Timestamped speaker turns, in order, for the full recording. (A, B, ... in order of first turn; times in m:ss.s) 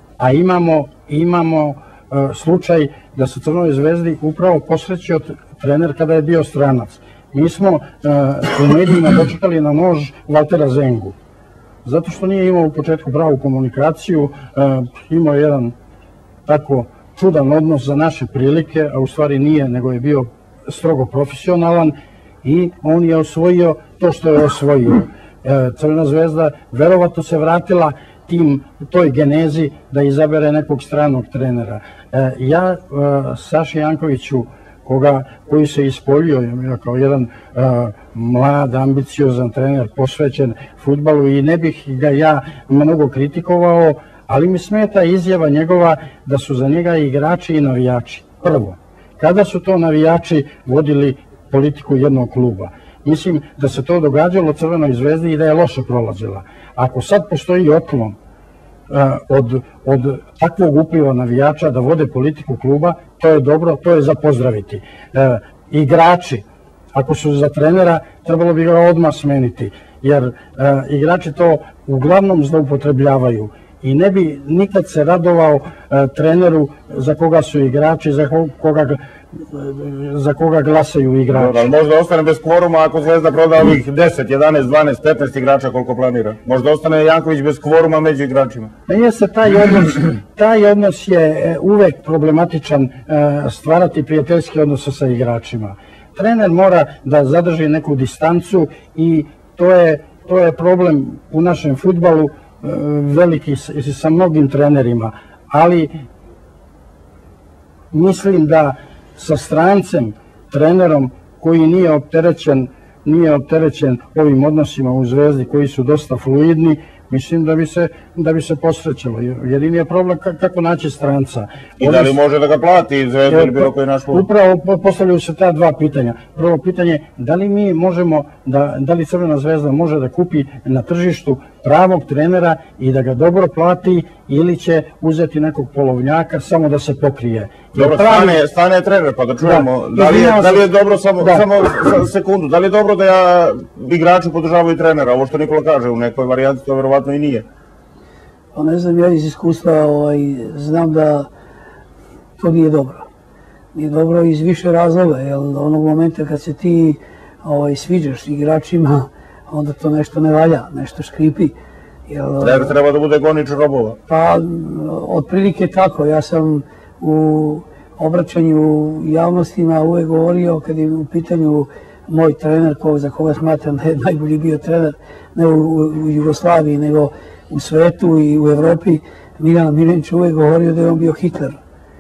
0:00.2-0:11.1 A
0:11.8-0:15.7 A
0:16.4-0:58.1 A
0:58.9-1:21.7 A
1:21.3-1:28.7 B
1:28.9-1:45.9 A
1:47.9-2:02.2 A
2:01.8-2:04.2 B
2:03.3-2:18.4 A
2:17.7-2:27.4 B
2:19.4-2:20.6 A
2:21.2-2:21.4 A
2:28.5-2:31.3 C
2:32.4-2:33.1 C
2:33.7-2:41.6 C
2:42.1-2:42.7 C
2:42.4-2:44.0 B
2:44.1-3:01.6 C